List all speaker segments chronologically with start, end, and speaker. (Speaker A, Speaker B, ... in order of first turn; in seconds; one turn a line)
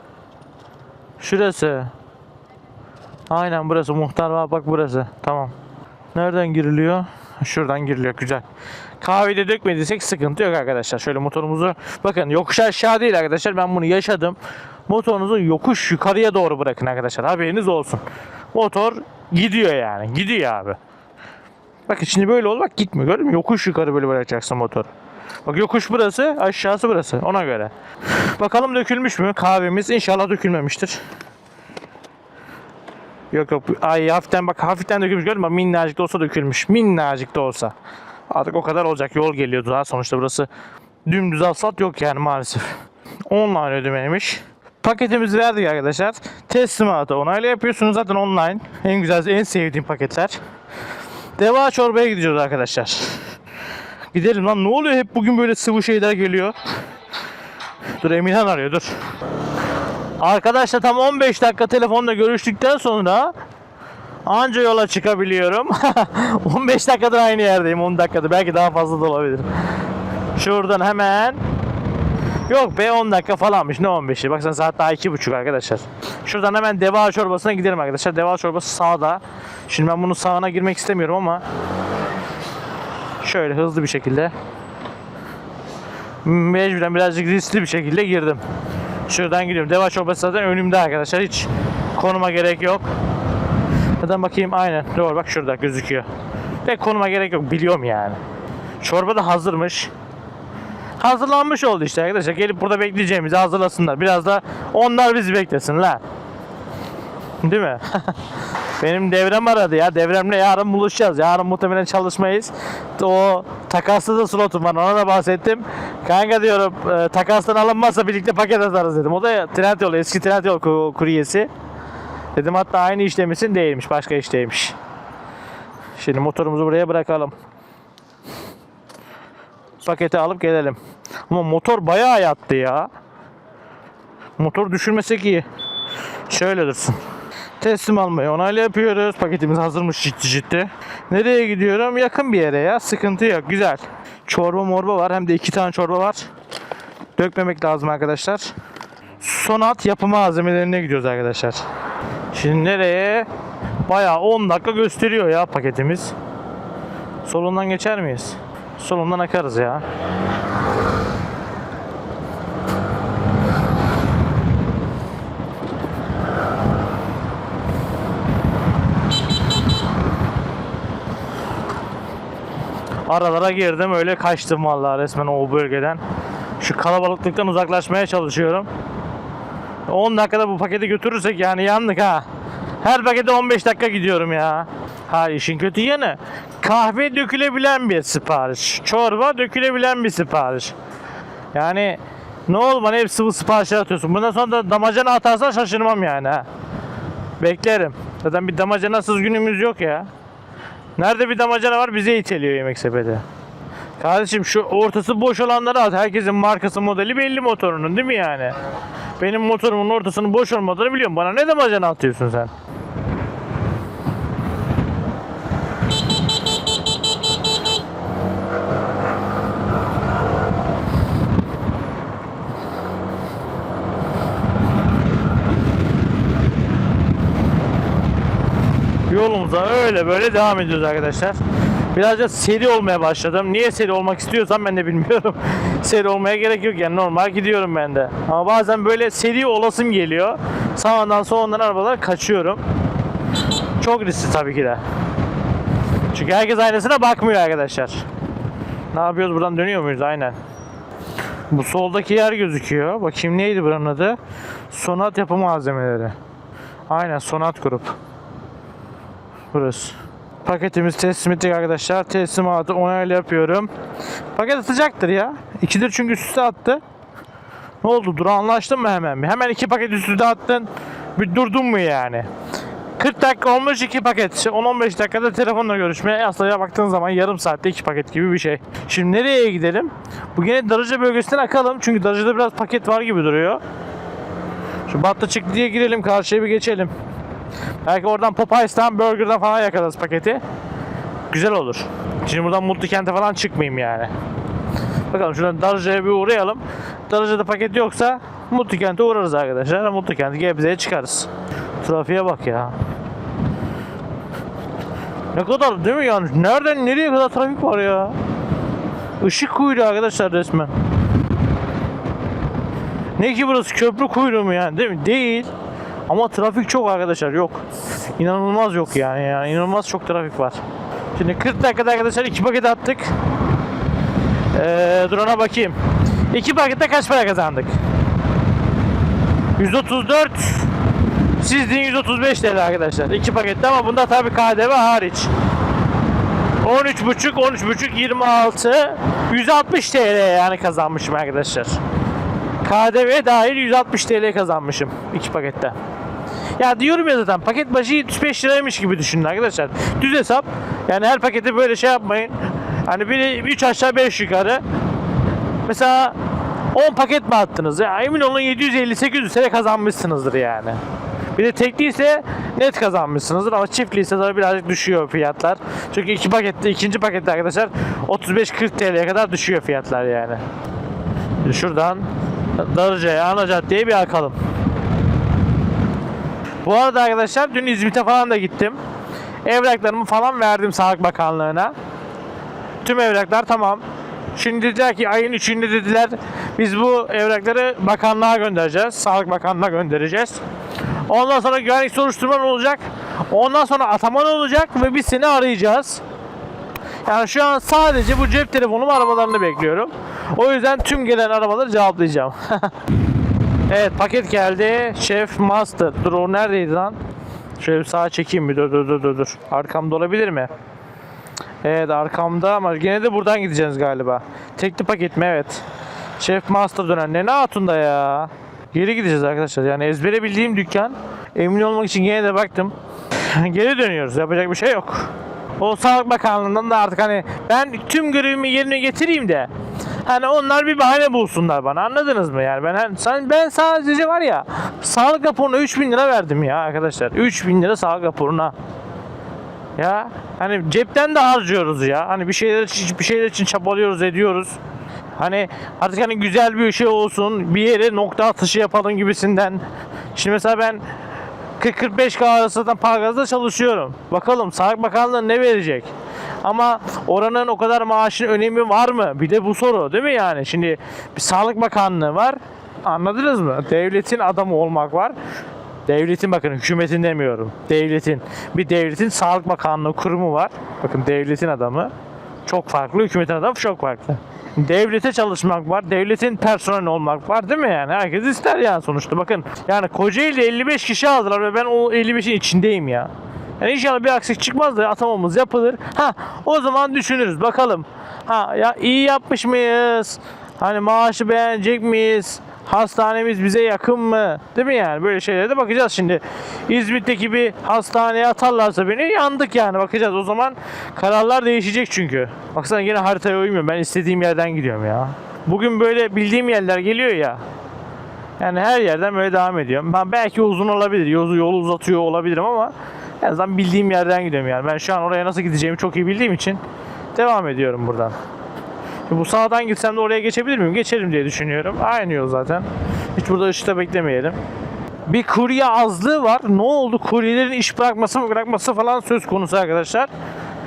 Speaker A: 1.2-1.9
Speaker A: 3.3-5.5
Speaker A: 6.1-8.4
Speaker A: 9.0-14.4
Speaker A: 14.9-18.0
Speaker A: 18.5-20.8
Speaker A: 21.9-24.9
Speaker A: 25.4-27.7
Speaker A: 28.4-31.0
Speaker A: 33.3-37.7
Speaker A: 38.3-40.5
Speaker A: 41.0-42.8
Speaker A: 43.3-50.4
Speaker A: 51.4-53.2
Speaker A: 54.1-56.5
Speaker A: 58.0-58.9
Speaker A: 60.2-63.3
Speaker A: 64.2-69.5
Speaker A: 70.3-71.4
Speaker A: 72.5-81.4
Speaker A: 83.2-84.3
Speaker A: 86.2-88.4
Speaker A: 89.1-92.8
Speaker A: 94.0-96.1
Speaker A: 96.6-98.2
Speaker A: 98.8-99.9
Speaker A: 101.0-106.0
Speaker A: 107.4-108.2
Speaker A: 108.8-121.5
Speaker A: 122.3-124.7
Speaker A: 126.0-127.3
Speaker A: 129.8-130.8
Speaker A: 131.3-132.9
Speaker A: 134.4-135.4
Speaker A: 136.3-137.0
Speaker A: 137.6-146.3
Speaker A: 147.2-148.5
Speaker A: 149.2-151.6
Speaker A: 152.3-153.3
Speaker A: 153.8-156.1
Speaker A: 157.2-159.8
Speaker A: 173.1-176.0
Speaker A: 176.6-178.7
Speaker A: 179.9-182.2
Speaker A: 182.8-190.7
Speaker A: 191.5-196.4
Speaker A: 197.4-200.1
Speaker A: 201.0-203.2
Speaker A: 204.0-208.5
Speaker A: 209.2-212.5
Speaker A: 229.1-231.4
Speaker A: 231.9-242.6
Speaker A: 243.8-244.8
Speaker A: 246.1-248.0
Speaker A: 248.9-250.3
Speaker A: 251.5-254.2
Speaker A: 254.7-256.1
Speaker A: 256.9-257.9
Speaker A: 259.5-263.7
Speaker A: 264.3-266.8
Speaker A: 267.8-272.3
Speaker A: 273.0-283.6
Speaker A: 284.9-286.9
Speaker A: 287.8-290.4
Speaker A: 291.3-294.1
Speaker A: 295.1-301.3
Speaker A: 301.8-302.7
Speaker A: 305.3-308.1
Speaker A: 309.2-310.7
Speaker A: 313.2-315.5
Speaker A: 316.1-317.6
Speaker A: 318.1-320.6
Speaker A: 321.1-323.1
Speaker A: 324.5-325.8
Speaker A: 326.3-327.8
Speaker A: 329.6-330.7
Speaker A: 331.4-335.3
Speaker A: 336.6-341.8
Speaker A: 342.6-345.7
Speaker A: 346.6-354.6
Speaker A: 355.6-356.2
Speaker A: 356.7-360.8
Speaker A: 361.3-370.4
Speaker A: 371.4-374.4
Speaker A: 376.6-378.8
Speaker A: 379.4-381.7
Speaker A: 382.8-383.8
Speaker A: 384.3-390.4
Speaker A: 391.1-396.0
Speaker A: 397.0-402.7
Speaker A: 403.7-407.0
Speaker A: 407.6-410.5
Speaker A: 411.6-415.6
Speaker A: 416.2-429.5
Speaker A: 430.0-438.5
Speaker A: 439.8-444.6
Speaker A: 445.2-449.6
Speaker A: 450.1-450.8
Speaker A: 451.6-455.9
Speaker A: 456.4-465.1
Speaker A: 465.9-471.9
Speaker A: 472.4-507.4
Speaker A: 508.4-516.6
Speaker A: 517.1-518.2
Speaker A: 519.1-522.6
Speaker A: 523.2-524.4
Speaker A: 525.1-530.1